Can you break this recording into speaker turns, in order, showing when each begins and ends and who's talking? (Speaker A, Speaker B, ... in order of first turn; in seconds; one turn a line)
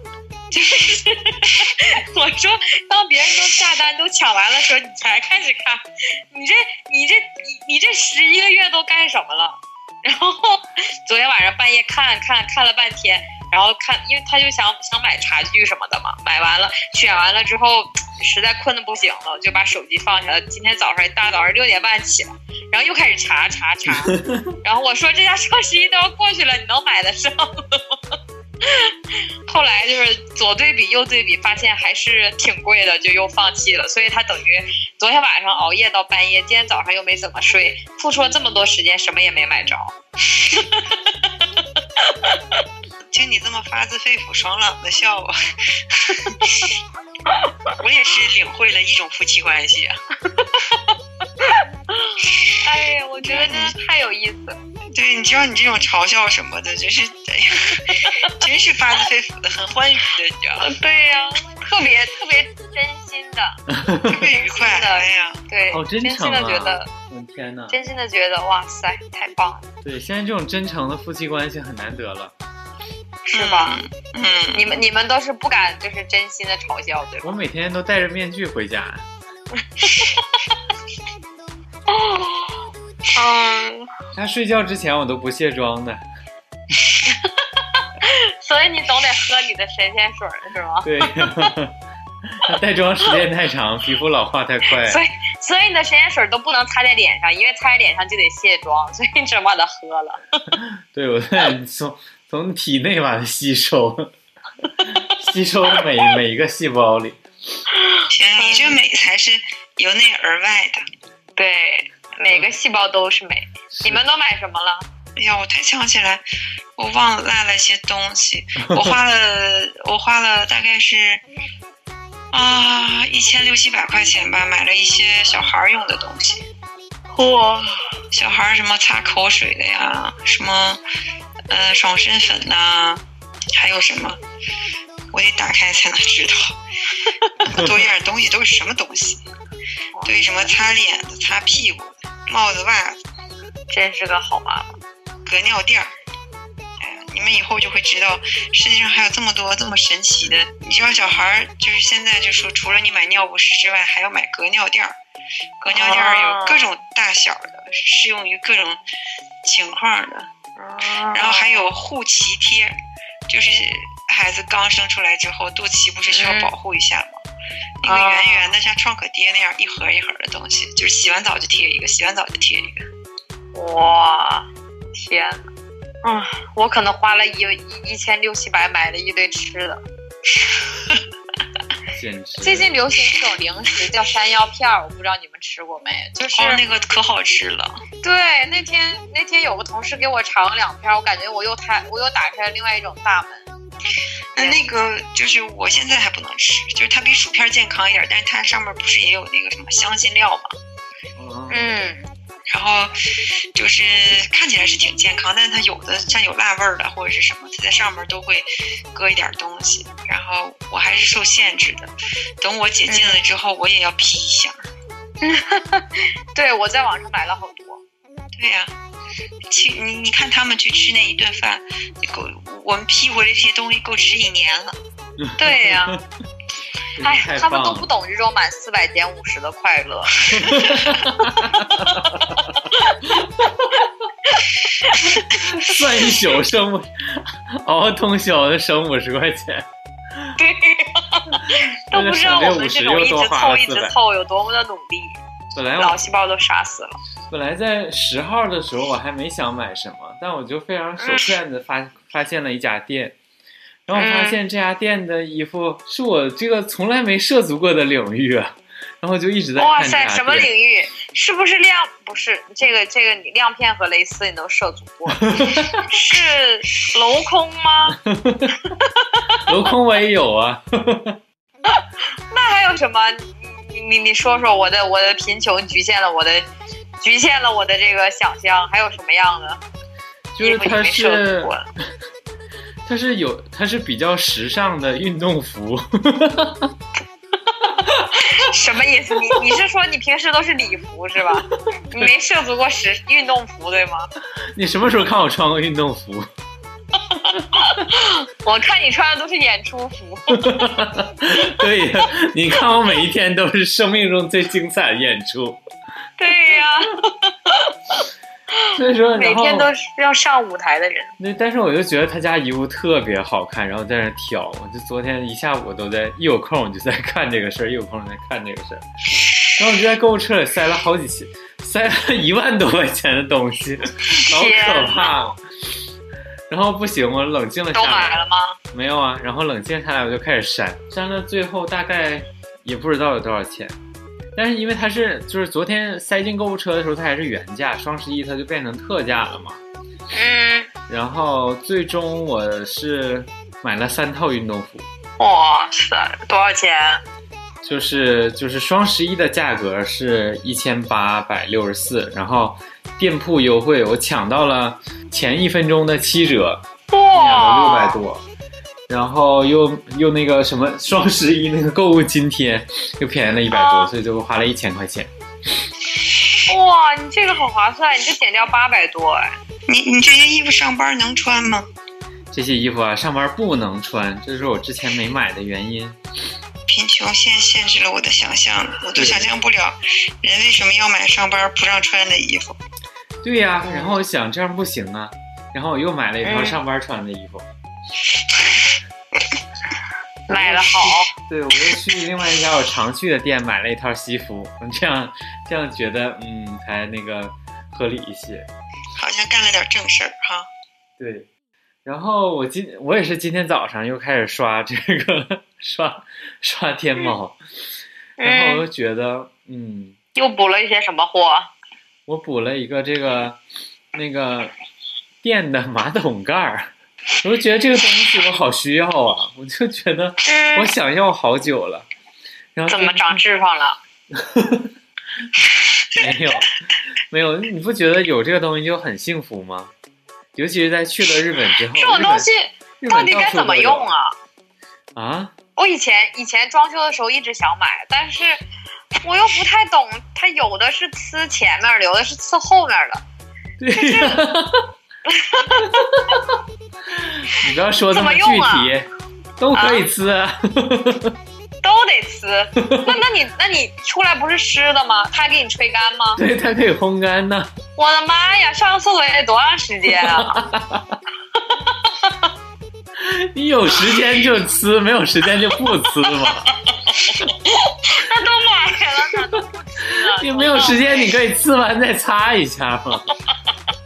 Speaker A: 0.5-27.9
Speaker B: 23.9-24.5
Speaker A: 28.6-28.9
Speaker A: 29.5-41.3
Speaker A: 42.0-42.4
Speaker C: 43.1-46.7
Speaker A: 47.3-47.7
Speaker C: 47.8-50.0
Speaker A: 50.3-54.6
Speaker C: 53.2-53.7
Speaker C: 54.9-60.7
Speaker A: 57.8-58.4
Speaker A: 60.6-63.6
Speaker B: 63.7-64.3
Speaker C: 64.1-65.5
Speaker A: 64.2-66.9
Speaker B: 65.7-67.8
Speaker A: 67.7-69.7
Speaker B: 69.8-72.3
Speaker C: 73.3-74.8
Speaker A: 73.3-73.8
Speaker A: 74.5-77.4
Speaker B: 77.2-79.0
Speaker A: 79.5-80.3
Speaker A: 81.9-82.5
Speaker A: 83.1-83.9
Speaker B: 84.1-86.0
Speaker A: 87.0-91.3
Speaker B: 90.8-91.7
Speaker B: 92.3-95.0
Speaker A: 94.8-100.4
Speaker B: 100.5-104.1
Speaker A: 104.8-105.1
Speaker B: 104.9-107.2
Speaker A: 107.7-108.8
Speaker C: 108.1-110.8
Speaker A: 111.3-114.8
Speaker B: 113.8-114.0
Speaker C: 115.2-116.2
Speaker C: 116.8-121.2
Speaker B: 118.7-119.0
Speaker C: 122.3-126.5
Speaker A: 127.1-127.9
Speaker C: 128.1-130.8
Speaker C: 131.5-133.0
Speaker C: 133.5-134.2
Speaker C: 135.1-136.6
Speaker C: 137.4-139.2
Speaker A: 139.9-140.6
Speaker C: 140.0-143.0
Speaker A: 143.7-144.8
Speaker C: 145.2-145.9
Speaker C: 146.8-155.0
Speaker C: 155.6-158.8
Speaker A: 155.7-156.7
Speaker C: 159.4-160.3
Speaker A: 160.6-161.7
Speaker C: 161.1-162.7
Speaker C: 163.3-167.2
Speaker A: 166.1-166.5
Speaker C: 167.8-172.8
Speaker A: 167.8-168.5
Speaker A: 173.5-175.5
Speaker A: 176.0-179.8
Speaker B: 181.9-182.7
Speaker A: 182.4-186.6
Speaker C: 186.3-187.8
Speaker A: 188.0-193.5
Speaker A: 194.3-194.6
Speaker C: 194.3-200.5
Speaker B: 201.2-201.8
Speaker A: 201.5-202.1
Speaker C: 202.5-202.9
Speaker C: 203.5-211.9
Speaker C: 212.4-214.6
Speaker A: 212.9-213.2
Speaker A: 215.2-217.8
Speaker C: 218.3-218.7
Speaker C: 219.5-224.7
Speaker B: 225.2-226.0
Speaker A: 225.4-226.0
Speaker B: 226.9-227.9
Speaker A: 227.0-230.9
Speaker B: 230.3-232.3
Speaker A: 231.6-233.0
Speaker B: 233.2-233.5
Speaker A: 234.2-235.8
Speaker B: 235.3-240.3
Speaker A: 240.4-245.2
Speaker B: 241.4-243.9
Speaker B: 245.5-246.0
Speaker A: 245.8-247.0
Speaker B: 247.3-253.2
Speaker A: 251.0-251.3
Speaker B: 253.9-260.5
Speaker A: 253.9-254.4
Speaker A: 259.6-268.0
Speaker B: 265.1-265.8
Speaker B: 267.9-268.6
Speaker A: 268.7-269.4
Speaker B: 269.4-271.2
Speaker A: 271.7-276.5
Speaker A: 277.0-279.6
Speaker B: 280.3-281.5
Speaker A: 280.4-281.7
Speaker B: 282.9-286.7
Speaker A: 287.5-294.1
Speaker B: 294.5-296.3
Speaker A: 297.0-300.6
Speaker B: 300.3-305.6
Speaker A: 306.2-308.0
Speaker A: 308.6-311.1
Speaker B: 308.7-309.7
Speaker B: 311.2-318.8
Speaker B: 319.5-325.4
Speaker A: 324.1-325.2
Speaker B: 326.5-333.8
Speaker A: 327.7-328.6
Speaker B: 334.3-339.6
Speaker A: 340.1-340.7
Speaker B: 340.9-344.9
Speaker A: 345.2-347.0
Speaker B: 347.6-356.6
Speaker A: 356.9-358.0
Speaker B: 357.1-358.2
Speaker B: 358.9-365.1
Speaker A: 363.5-363.9
Speaker A: 366.5-369.4
Speaker C: 369.7-371.7
Speaker B: 372.3-376.0
Speaker C: 376.7-382.6
Speaker B: 378.9-379.3
Speaker B: 383.2-387.5
Speaker A: 386.2-386.6
Speaker A: 390.3-391.1
Speaker B: 390.3-398.5
Speaker C: 398.9-400.5
Speaker B: 401.0-401.3
Speaker B: 401.8-407.4
Speaker A: 408.2-408.6
Speaker B: 408.2-409.9
Speaker A: 410.1-411.5
Speaker B: 412.1-413.4
Speaker B: 413.9-414.5
Speaker B: 415.2-416.7
Speaker B: 417.2-421.9
Speaker A: 420.2-420.7
Speaker B: 422.5-423.2
Speaker A: 422.7-423.8
Speaker B: 424.1-424.7
Speaker B: 425.9-426.5
Speaker B: 427.1-429.7
Speaker B: 430.3-432.3
Speaker A: 431.8-434.1
Speaker B: 432.8-433.9
Speaker B: 434.9-435.3
Speaker A: 435.6-438.4
Speaker A: 439.0-443.0
Speaker B: 443.6-444.6
Speaker A: 443.8-444.2
Speaker A: 445.1-445.8
Speaker B: 445.6-451.1
Speaker A: 447.9-448.7
Speaker A: 449.5-449.8
Speaker A: 451.6-456.2
Speaker B: 452.6-453.0
Speaker B: 456.2-457.5
Speaker A: 457.8-460.4
Speaker B: 459.9-461.0
Speaker A: 461.4-462.3
Speaker B: 463.0-466.5
Speaker A: 466.4-471.1
Speaker B: 470.1-473.0